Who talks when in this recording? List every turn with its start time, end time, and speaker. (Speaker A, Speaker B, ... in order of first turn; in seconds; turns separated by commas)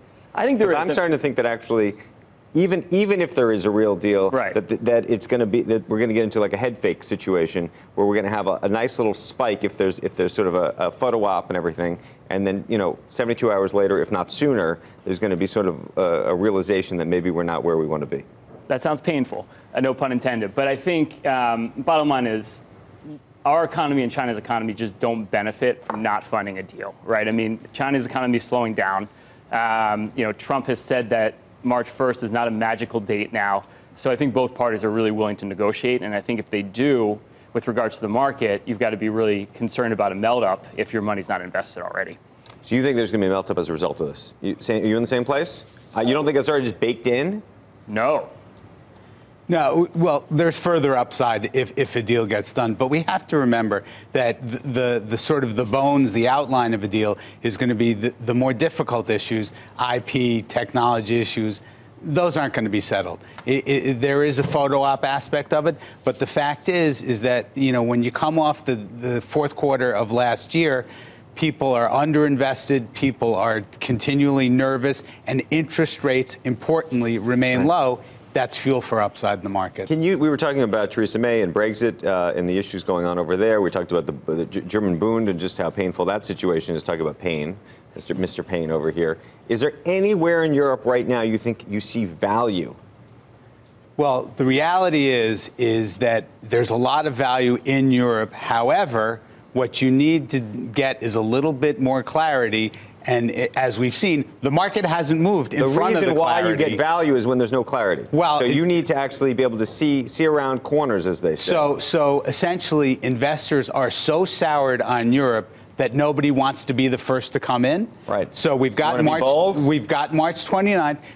Speaker A: 0.3-1.0, Speaker B: 0.6-2.0, Speaker B: 2.5-18.2, Speaker A: 4.3-4.6, Speaker A: 18.7-22.6, Speaker A: 23.4-42.2, Speaker B: 42.6-47.4, Speaker A: 47.9-48.3, Speaker C: 49.5-79.9, Speaker B: 79.9-92.8, Speaker C: 94.0-106.8, Speaker B: 105.6-111.7, Speaker C: 108.1-108.6, Speaker C: 111.4-121.0, Speaker B: 118.1-119.7